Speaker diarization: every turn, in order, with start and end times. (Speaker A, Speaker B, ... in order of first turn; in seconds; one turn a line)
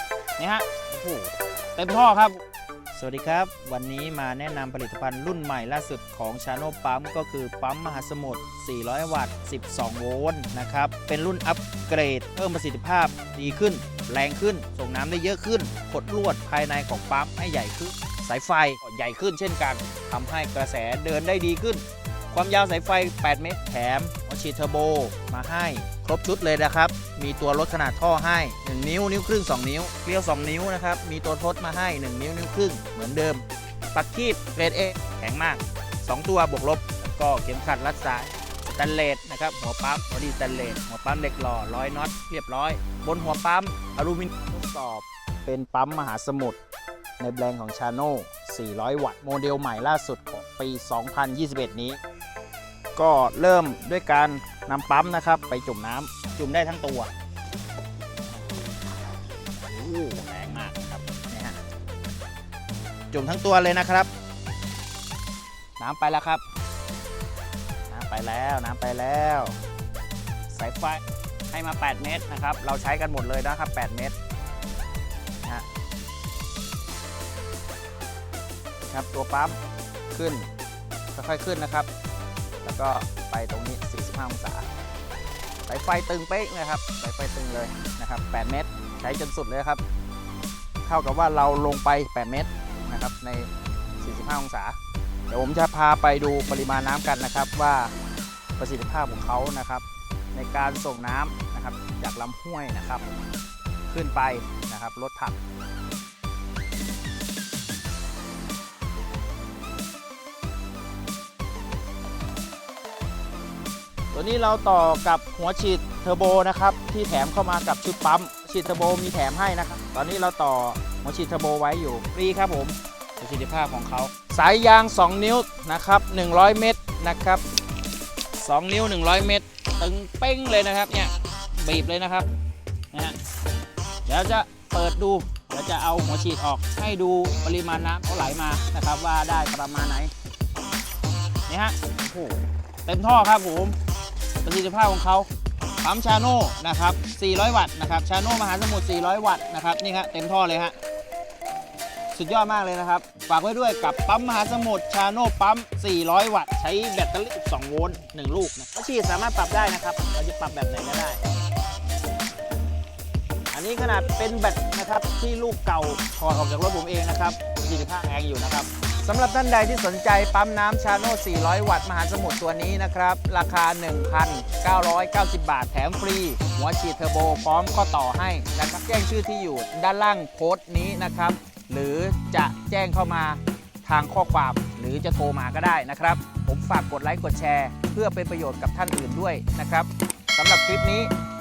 Speaker A: 0.4-2.4
Speaker A: 2.9-33.4
Speaker A: 33.9-46.6
Speaker A: 47.2-52.0
Speaker A: 52.9-57.1
Speaker A: 58.3-58.7
Speaker A: 59.6-61.6
Speaker A: 63.1-64.1
Speaker A: 65.8-66.4
Speaker A: 67.9-69.5
Speaker A: 70.5-74.1
Speaker A: 78.9-79.6
Speaker A: 80.1-80.5
Speaker A: 81.1-81.9
Speaker A: 82.6-84.7
Speaker A: 85.6-89.8
Speaker A: 90.8-94.8
Speaker A: 95.3-97.9
Speaker A: 98.6-103.0
Speaker A: 103.9-105.4
Speaker A: 114.1-127.4
Speaker A: 128.3-132.3
Speaker A: 134.1-140.1
Speaker A: 141.5-143.8
Speaker A: 144.4-145.3
Speaker A: 145.8-150.7
Speaker A: 152.1-161.2
Speaker A: 163.5-191.1